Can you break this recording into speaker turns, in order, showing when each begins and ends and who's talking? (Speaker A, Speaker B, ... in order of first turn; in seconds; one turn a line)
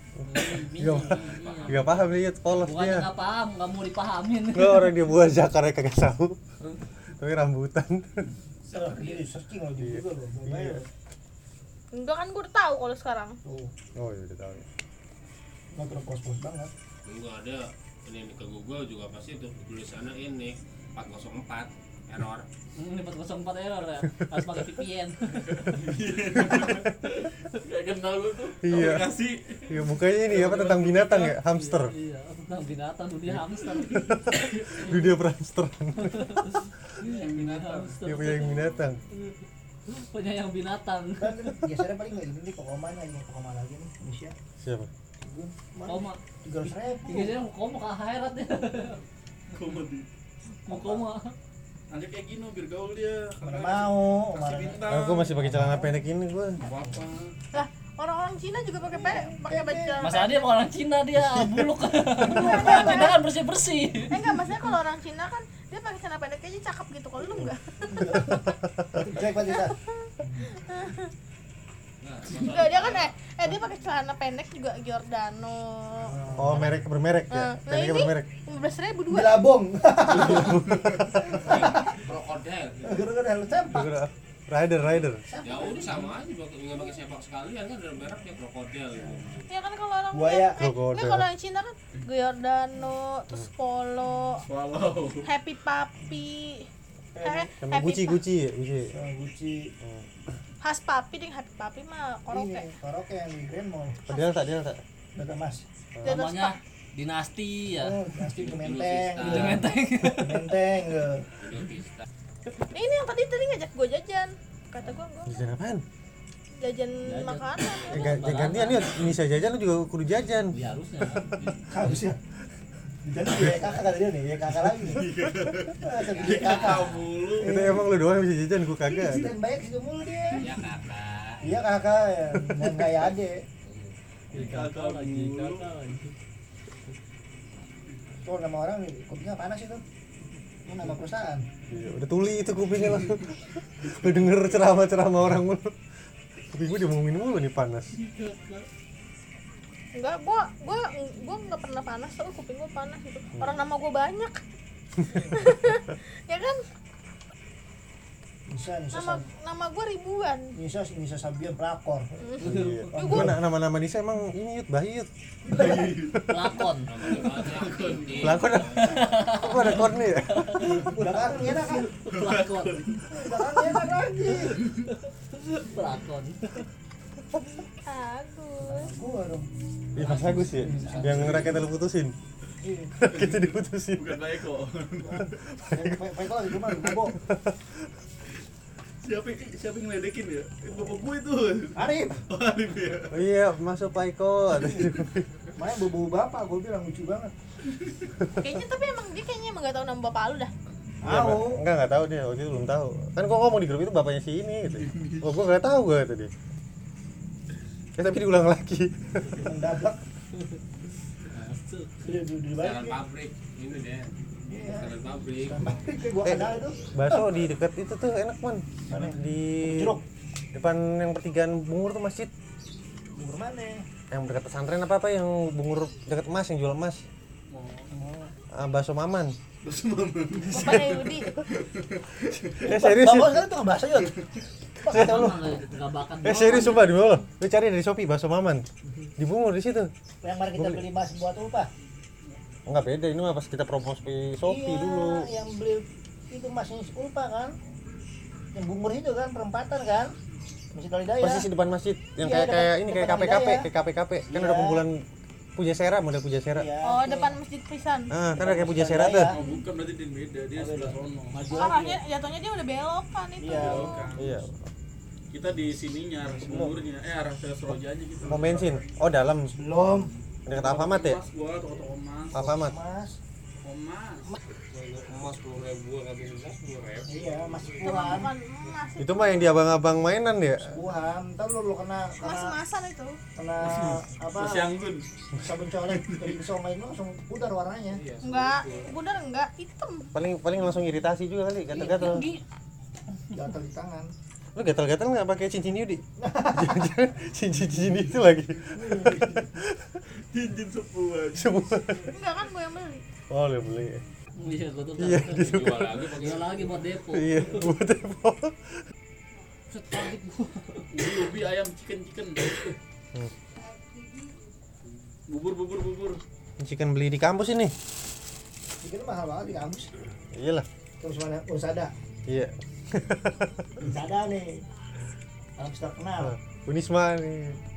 Speaker A: 0.3-1.9
Speaker B: 0.3-3.1
Speaker C: 0.5-2.2
Speaker A: 2.5-5.0
Speaker B: 4.5-6.4
Speaker B: 7.2-8.3
Speaker C: 8.6-9.3
Speaker D: 8.7-10.9
Speaker B: 9.8-10.9
Speaker E: 11.9-13.4
Speaker D: 13.4-13.7
Speaker B: 14.0-14.7
Speaker D: 15.7-16.7
Speaker C: 17.1-22.5
Speaker A: 22.8-25.7
Speaker F: 25.4-31.4
Speaker B: 28.6-29.1
Speaker B: 29.7-31.9
Speaker A: 31.5-34.0
Speaker B: 34.2-36.7
Speaker F: 34.4-34.9
Speaker A: 36.0-39.4
Speaker F: 37.0-38.0
Speaker B: 38.0-39.0
Speaker A: 39.9-41.6
Speaker D: 41.2-44.3
Speaker B: 44.6-44.9
Speaker D: 45.2-47.4
Speaker A: 45.9-49.0
Speaker F: 49.5-50.1
Speaker A: 50.7-51.4
Speaker F: 51.9-55.3
Speaker D: 53.4-56.0
Speaker B: 54.9-56.6
Speaker F: 56.6-57.4
Speaker D: 56.7-57.0
Speaker E: 57.5-60.3
Speaker D: 58.9-60.1
Speaker A: 60.0-64.3
Speaker B: 61.2-61.6
Speaker E: 62.2-63.2
Speaker E: 64.1-68.2
Speaker D: 67.8-70.5
Speaker B: 68.3-69.0
Speaker E: 69.6-71.1
Speaker C: 72.0-73.1
Speaker F: 72.3-73.1
Speaker E: 72.3-76.2
Speaker D: 76.1-76.8
Speaker B: 76.3-78.3
Speaker E: 77.3-79.5
Speaker D: 79.1-82.0
Speaker B: 80.1-81.2
Speaker C: 81.4-83.1
Speaker D: 82.8-84.0
Speaker B: 83.7-85.2
Speaker D: 85.2-86.1
Speaker C: 85.4-89.4
Speaker D: 89.0-89.4
Speaker E: 89.5-94.5
Speaker D: 90.1-90.6
Speaker B: 90.6-91.3
Speaker F: 94.4-95.3
Speaker E: 95.2-98.2
Speaker D: 97.2-97.5
Speaker B: 97.6-98.9
Speaker D: 98.9-99.7
Speaker E: 100.6-102.7
Speaker D: 102.3-104.1
Speaker B: 104.1-104.8
Speaker D: 105.2-105.7
Speaker B: 106.0-106.2
Speaker E: 106.0-106.6
Speaker A: 106.1-108.0
Speaker D: 107.8-111.3
Speaker C: 108.3-109.7
Speaker A: 109.2-110.5
Speaker C: 111.4-112.1
Speaker E: 112.7-115.3
Speaker B: 115.3-115.8
Speaker E: 116.6-118.2
Speaker A: 117.1-119.1
Speaker B: 117.9-120.5
Speaker A: 120.5-121.4
Speaker C: 121.3-121.8
Speaker D: 121.7-122.2
Speaker D: 123.0-125.1
Speaker B: 123.3-123.7
Speaker F: 124.6-127.6
Speaker D: 125.8-127.9
Speaker C: 126.0-127.1
Speaker B: 127.4-129.3
Speaker D: 129.0-130.5
Speaker C: 130.3-131.6
Speaker D: 131.4-133.4
Speaker C: 133.6-133.9
Speaker A: 134.3-136.1
Speaker F: 134.4-135.6
Speaker D: 138.2-139.8
Speaker D: 140.7-141.5
Speaker B: 141.7-145.7
Speaker B: 146.5-147.9
Speaker F: 148.2-148.5
Speaker E: 149.9-154.4
Speaker E: 155.1-156.6
Speaker D: 158.5-159.3
Speaker E: 158.9-160.6
Speaker D: 160.6-163.4
Speaker E: 162.2-163.3
Speaker B: 162.4-166.5
Speaker D: 165.5-165.9
Speaker F: 165.7-166.2
Speaker A: 166.3-167.4
Speaker C: 166.9-169.0
Speaker F: 167.2-168.2
Speaker B: 168.2-170.7
Speaker A: 168.8-170.7
Speaker D: 170.6-171.9
Speaker A: 171.6-173.0
Speaker F: 171.8-173.5
Speaker D: 173.1-174.6
Speaker A: 174.3-174.9
Speaker A: 175.4-176.7
Speaker E: 177.9-178.9
Speaker D: 178.6-179.5
Speaker B: 180.0-182.1
Speaker A: 180.0-181.2
Speaker D: 180.6-181.3
Speaker F: 181.1-181.5
Speaker D: 182.6-183.0
Speaker B: 183.0-184.2
Speaker F: 183.9-185.2
Speaker D: 185.0-187.2
Speaker B: 185.5-186.0
Speaker B: 187.2-187.8
Speaker F: 189.0-193.2
Speaker D: 191.8-192.2
Speaker B: 193.1-195.3
Speaker D: 194.5-195.0
Speaker D: 195.6-197.3
Speaker E: 198.4-200.5
Speaker D: 201.0-201.6
Speaker B: 201.0-206.3
Speaker B: 208.0-209.4
Speaker D: 209.3-210.0
Speaker A: 211.3-212.2
Speaker D: 212.0-213.0
Speaker C: 212.6-215.8
Speaker D: 214.5-217.1
Speaker B: 216.2-220.0
Speaker D: 218.9-220.0
Speaker B: 220.5-222.3
Speaker D: 223.2-223.8
Speaker B: 224.1-227.1
Speaker F: 227.5-227.9
Speaker D: 227.9-228.3
Speaker B: 228.5-229.4
Speaker F: 229.6-232.5
Speaker E: 230.5-231.4
Speaker D: 232.6-234.1
Speaker B: 232.6-233.4
Speaker B: 234.8-235.4
Speaker D: 234.8-235.4
Speaker A: 234.9-236.9
Speaker B: 236.2-238.7
Speaker B: 239.2-239.9
Speaker D: 240.2-241.7
Speaker B: 240.6-240.9
Speaker B: 242.7-245.3
Speaker D: 244.4-247.6
Speaker D: 248.5-250.1
Speaker D: 250.7-251.5
Speaker B: 251.2-255.1
Speaker D: 252.2-253.7
Speaker D: 254.3-254.8
Speaker B: 255.6-256.7
Speaker D: 256.5-257.4
Speaker E: 256.8-258.1
Speaker B: 258.1-259.3
Speaker D: 258.3-259.5
Speaker F: 259.3-261.5
Speaker E: 259.4-259.7
Speaker D: 260.5-262.0
Speaker E: 261.5-264.1
Speaker D: 263.4-264.5
Speaker F: 263.6-264.3
Speaker B: 264.1-264.5
Speaker F: 265.3-268.8
Speaker D: 266.3-266.7
Speaker B: 268.2-269.5
Speaker D: 269.5-270.1
Speaker F: 269.9-272.5
Speaker B: 270.4-271.2
Speaker B: 272.3-272.8
Speaker D: 272.4-273.2
Speaker F: 273.6-274.4
Speaker C: 274.7-277.8
Speaker D: 277.1-278.3
Speaker E: 277.8-279.6
Speaker B: 279.0-280.8
Speaker D: 280.6-282.6
Speaker E: 282.2-283.2
Speaker D: 283.4-284.7
Speaker F: 283.6-285.1
Speaker D: 285.4-288.1
Speaker F: 285.8-286.4
Speaker C: 287.9-288.9
Speaker E: 288.2-290.1
Speaker B: 290.1-292.3
Speaker D: 291.7-292.2
Speaker A: 291.8-292.4
Speaker D: 293.3-294.1
Speaker B: 294.6-300.0
Speaker D: 296.2-296.9
Speaker D: 298.8-299.1
Speaker F: 300.2-301.6
Speaker B: 301.3-302.1
Speaker E: 302.0-303.0
Speaker B: 303.3-304.0
Speaker A: 304.4-307.7
Speaker B: 305.0-306.1
Speaker C: 305.3-306.8
Speaker B: 307.1-308.8
Speaker A: 309.7-310.9
Speaker F: 310.9-312.7
Speaker F: 315.3-316.2
Speaker B: 316.6-317.8
Speaker D: 318.8-319.9
Speaker B: 320.3-320.7
Speaker D: 321.0-321.9
Speaker B: 322.3-323.5
Speaker D: 323.8-324.6
Speaker D: 325.6-326.3
Speaker B: 326.2-327.6